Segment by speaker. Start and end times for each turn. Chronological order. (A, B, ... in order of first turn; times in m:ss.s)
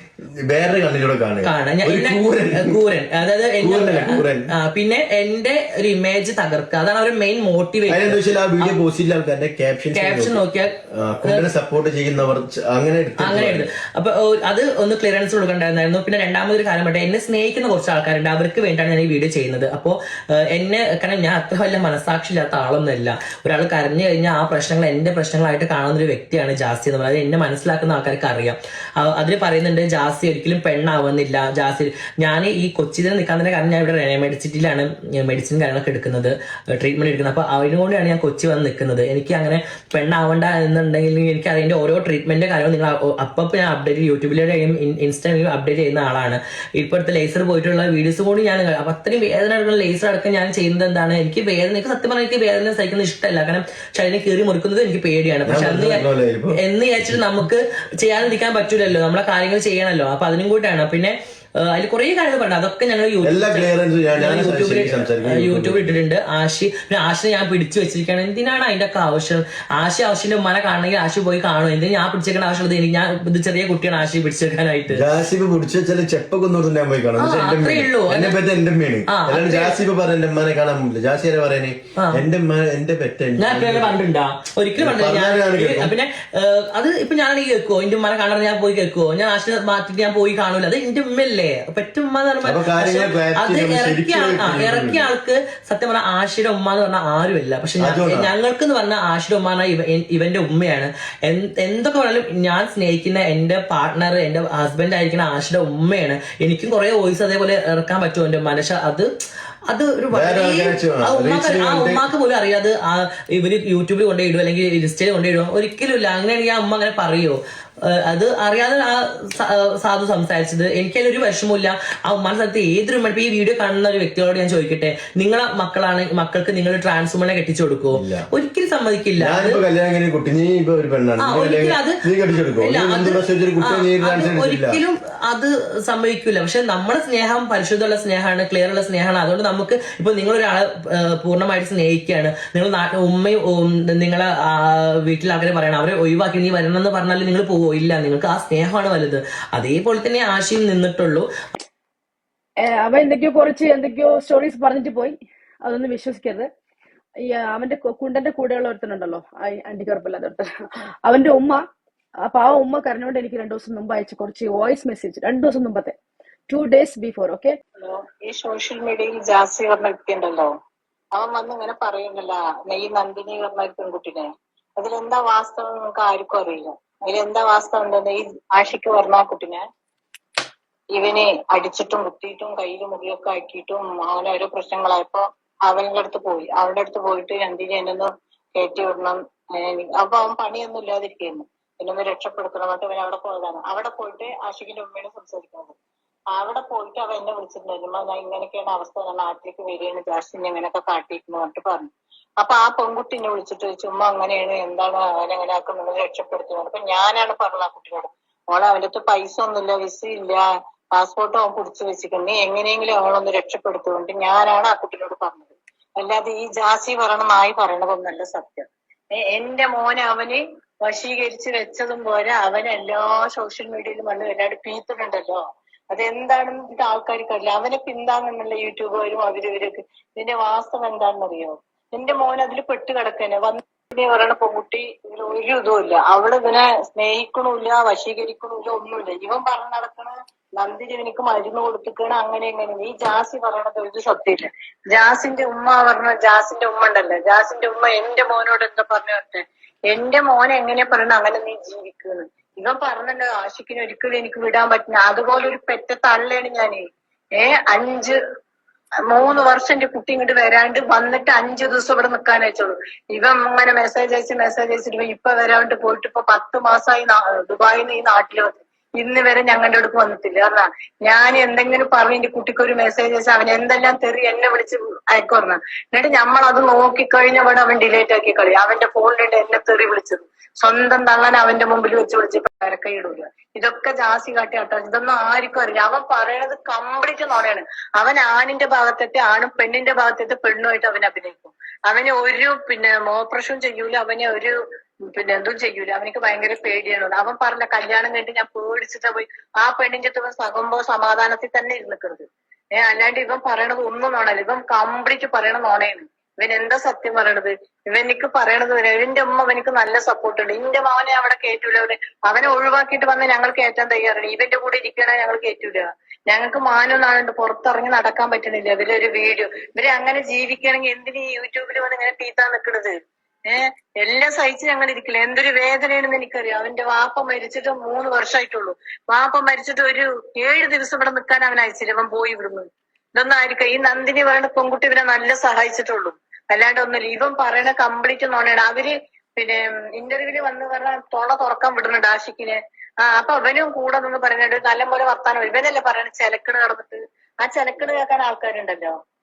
0:00.4-0:02.8 A
0:01.4-0:08.8 B
0:03.6-0:04.5 A
0:07.9-0:10.4 A
0:10.0-0:11.4 B
0:10.9-0:13.7 A
0:13.2-0:56.0 B
0:55.5-0:57.2 A
0:56.6-1:01.2 B
1:01.7-1:15.0 B
1:03.2-1:06.0 A
1:14.9-1:24.0 A
1:17.2-1:18.4 B
1:19.1-1:19.8 B
1:22.0-1:22.2 B
1:23.4-1:49.1 B
1:24.8-1:25.9 A
1:32.4-1:35.1 A
1:37.8-1:38.3 A
1:49.7-2:09.6 B
1:50.1-1:52.1 A
2:07.9-2:08.3 A
2:09.2-2:14.8 A
2:11.2-2:12.0 B
2:12.6-2:31.2 B
2:32.6-2:36.5 C
2:37.2-2:40.5 C
2:41.1-2:41.6 C
2:42.2-2:45.9 C
2:46.5-2:47.6 C
2:47.8-2:50.5 D
2:51.2-2:59.6 D
3:00.9-3:15.8 D
3:16.3-3:21.9 D
3:22.4-3:30.4 D
3:31.0-4:16.8 D
4:17.4-4:18.2 D
4:19.1-4:54.5 D
4:55.1-5:02.2 D
5:02.8-5:23.0 D
5:23.5-5:48.9 D